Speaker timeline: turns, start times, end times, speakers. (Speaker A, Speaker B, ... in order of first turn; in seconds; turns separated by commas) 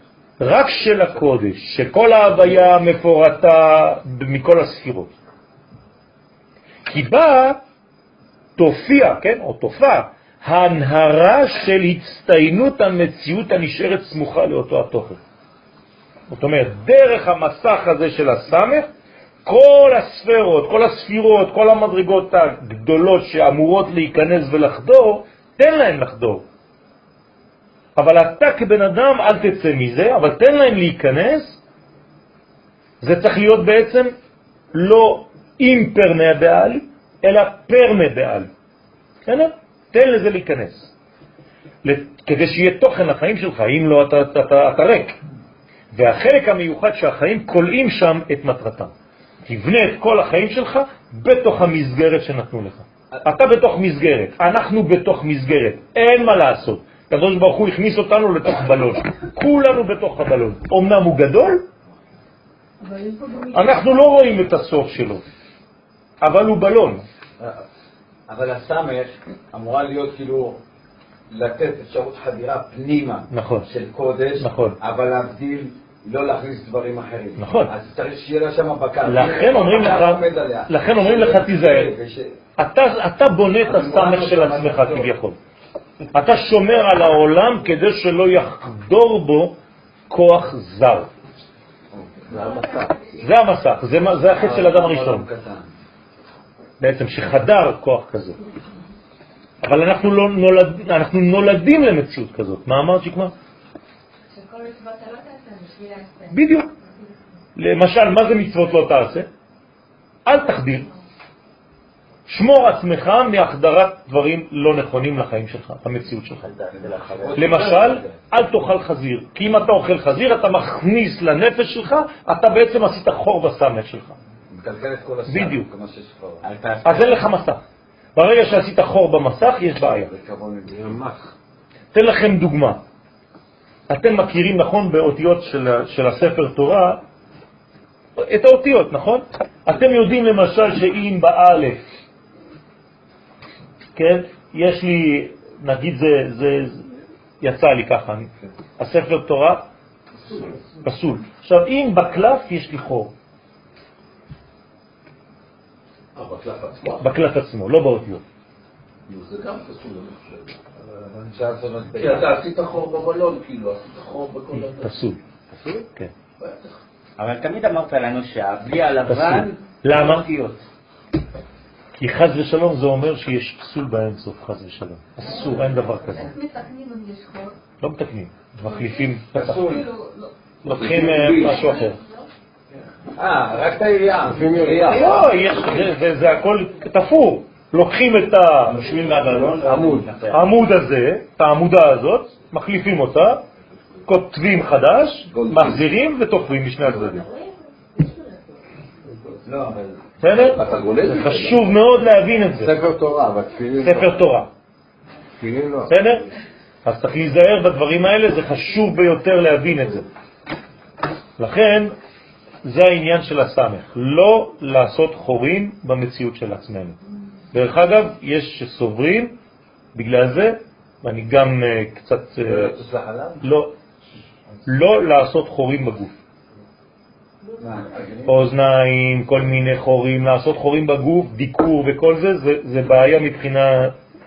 Speaker A: 0.4-5.1, Speaker A: 6.9-7.6, Speaker A: 8.6-15.2, Speaker A: 16.3-18.9, Speaker A: 19.4-26.4, Speaker A: 27.9-31.6, Speaker A: 33.0-34.1, Speaker A: 34.7-38.5, Speaker A: 39.2-40.9, Speaker A: 41.8-45.2, Speaker A: 45.9-48.9, Speaker A: 49.5-61.6, Speaker B: 62.8-63.9, Speaker A: 63.5-65.2, Speaker A: 66.2-67.0, Speaker C: 68.3-70.6, Speaker C: 71.3-82.3, Speaker A: 73.3-73.7, Speaker A: 74.4-74.8, Speaker A: 77.4-77.7, Speaker A: 79.0-81.9, Speaker A: 82.6-85.3, Speaker C: 83.7-85.0, Speaker A: 86.1-89.6, Speaker A: 90.1-91.1, Speaker C: 92.0-92.9, Speaker B: 92.4-93.2, Speaker A: 93.2-95.3, Speaker C: 94.4-95.7, Speaker A: 96.8-98.4, Speaker A: 99.6-103.3, Speaker B: 104.3-106.5, Speaker A: 106.3-106.7, Speaker A: 107.5-109.3, Speaker A: 110.2-110.9, Speaker A: 112.3-116.5, Speaker D: 116.4-117.6, Speaker C: 116.7-118.2, Speaker A: 117.3-124.2, Speaker C: 124.5-126.4, Speaker A: 125.3-125.7, Speaker D: 126.4-127.3, Speaker A: 126.8-127.6, Speaker A: 128.2-130.1, Speaker C: 130.1-130.8, Speaker E: 130.7-131.2, Speaker A: 131.9-132.8, Speaker A: 133.9-137.0, Speaker A: 138.2-141.8, Speaker A: 143.9-149.7, Speaker A: 150.8-153.1, Speaker F: 156.1-157.1, Speaker A: 157.0-158.2, Speaker F: 159.1-160.6, Speaker C: 160.9-162.3, Speaker F: 161.9-165.0, Speaker A: 164.5-165.2, Speaker E: 165.6-165.8, Speaker F: 166.4-166.7, Speaker D: 167.2-170.6, Speaker A: 169.1-170.2, Speaker A: 172.0-176.3, Speaker B: 175.3-177.6, Speaker A: 177.8-179.8, Speaker B: 178.7-180.3, Speaker C: 179.4-179.8, Speaker A: 180.6-182.0, Speaker F: 180.7-181.6, Speaker B: 181.4-182.3, Speaker C: 183.2-185.2, Speaker E: 184.2-185.2, Speaker A: 184.9-189.5, Speaker D: 188.7-190.5, Speaker C: 189.7-189.9, Speaker A: 190.3-193.4, Speaker A: 194.1-197.2, Speaker B: 196.8-198.6, Speaker C: 199.4-199.9, Speaker A: 200.2-202.8, Speaker F: 200.4-201.7, Speaker E: 202.6-204.3, Speaker A: 203.8-204.5, Speaker E: 205.4-205.9, Speaker A: 205.9-206.2, Speaker A: 206.8-210.1, Speaker A: 211.4-211.9, Speaker A: 212.6-216.9, Speaker A: 217.5-219.4, Speaker A: 219.9-222.8, Speaker C: 222.4-223.4, Speaker A: 223.4-223.7, Speaker A: 224.7-226.2, Speaker B: 227.4-228.0, Speaker C: 227.8-228.3, Speaker A: 228.3-233.9